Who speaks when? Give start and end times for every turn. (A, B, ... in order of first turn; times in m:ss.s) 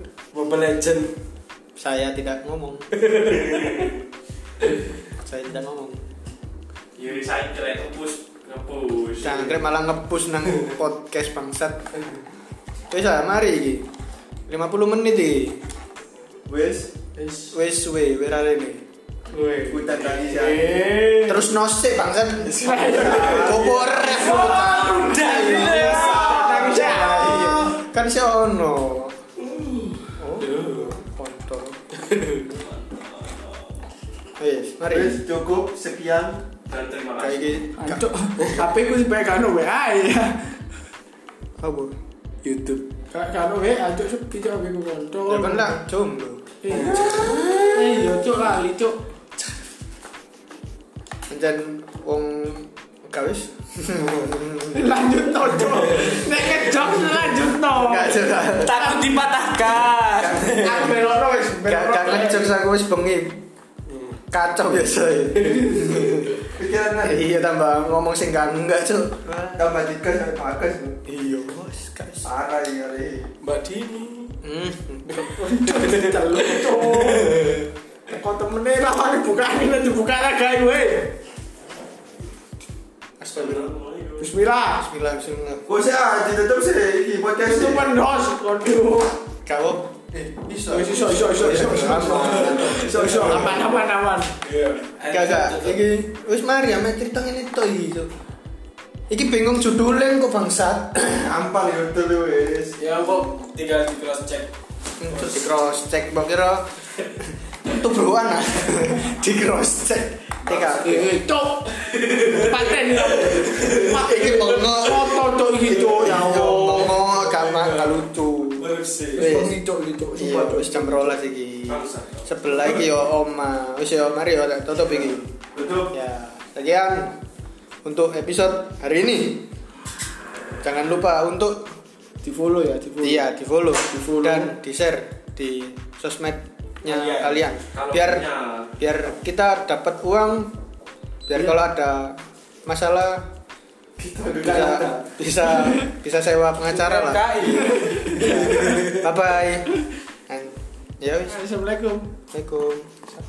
0:00.3-0:01.1 A
0:01.8-0:03.0 B
0:03.0-0:03.8 A
0:03.4-0:03.9 C
0:05.2-0:06.0 B
0:07.0-0:09.6 C
0:09.2-0:11.9 B
0:12.9-0:13.9 B
0:14.5-0:15.6 B
0:16.5-0:16.9 D
0:17.2-0:17.5 A
0:17.5-0:18.8 B
0:19.3-0:21.4 A
0:19.7-0:20.9 D
0:21.2-0:29.2 B
0:22.4-0:24.0 D
0:22.6-0:27.7 E
0:22.8-0:27.7 A
0:25.1-0:26.6 D
0:29.4-0:30.9 A
0:30.2-0:31.8 B
0:31.9-0:32.5 A
0:32.4-0:33.7 C
0:34.4-0:35.2 B
0:34.9-0:36.4 D
0:36.7-0:37.6 C
0:37.2-0:38.0 B
0:37.8-0:40.6 E
0:41.6-0:41.9 B
0:42.4-0:42.9 A
0:43.1-0:45.7 E
0:45.3-0:47.2 B
0:46.6-0:49.0 E
0:46.7-0:47.4 A
0:46.7-0:47.6 D
0:51.3-0:55.0 B
0:54.7-0:59.0 E
0:57.6-0:59.0 B
0:58.6-1:00.9 A
1:00.2-1:03.4 B
1:00.5-1:02.5 E
1:03.9-1:04.2 A
1:04.3-1:06.4 B
1:05.4-1:06.2 A
1:06.5-1:07.3 D
1:07.0-1:09.7 B
1:09.6-1:11.0 D
1:11.0-1:12.3 B
1:12.2-1:13.3 D
1:13.4-1:14.4 A
1:14.4-1:15.1 B
1:15.1-1:17.7 A
1:15.1-1:21.1 E
1:23.2-1:23.7 B
1:23.3-1:24.3 C
1:24.2-1:24.8 E
1:24.8-1:25.6 B
1:25.6-1:27.9 D
1:27.5-1:29.2 E
1:29.4-1:33.5 B
1:30.7-1:34.3 E
1:31.6-1:33.6 D
1:32.2-1:33.3 A
1:34.4-1:35.8 A
1:35.1-1:38.1 B
1:39.1-1:41.3 B
1:41.2-1:42.8 D
1:42.8-1:44.5 A
1:45.0-1:46.7 B
1:47.2-1:51.1 B
1:50.8-1:57.0 E
1:51.8-1:54.0 A
1:53.6-1:55.1 B
1:55.6-1:59.6 B
1:55.7-1:56.6 D
1:57.2-1:58.0 A
1:58.5-1:59.3 A
1:59.1-2:01.2 E
2:00.1-2:05.3 B
2:01.7-2:02.3 C
2:05.5-2:05.9 D
2:05.9-2:07.2 B
2:07.8-2:09.5 B
2:10.6-2:11.8 B
2:12.2-2:13.3 E
2:13.0-2:18.2 B
2:13.9-2:14.6 E
2:16.8-2:17.4 A
2:17.7-2:18.7 C
2:18.8-2:20.5 B
2:21.3-2:23.3 B
2:24.0-2:25.1 D
2:24.4-2:29.7 B
2:26.7-2:29.0 A
2:27.7-2:28.0 E
2:30.3-2:31.4 B
2:31.3-2:32.1 E
2:32.3-2:33.1 B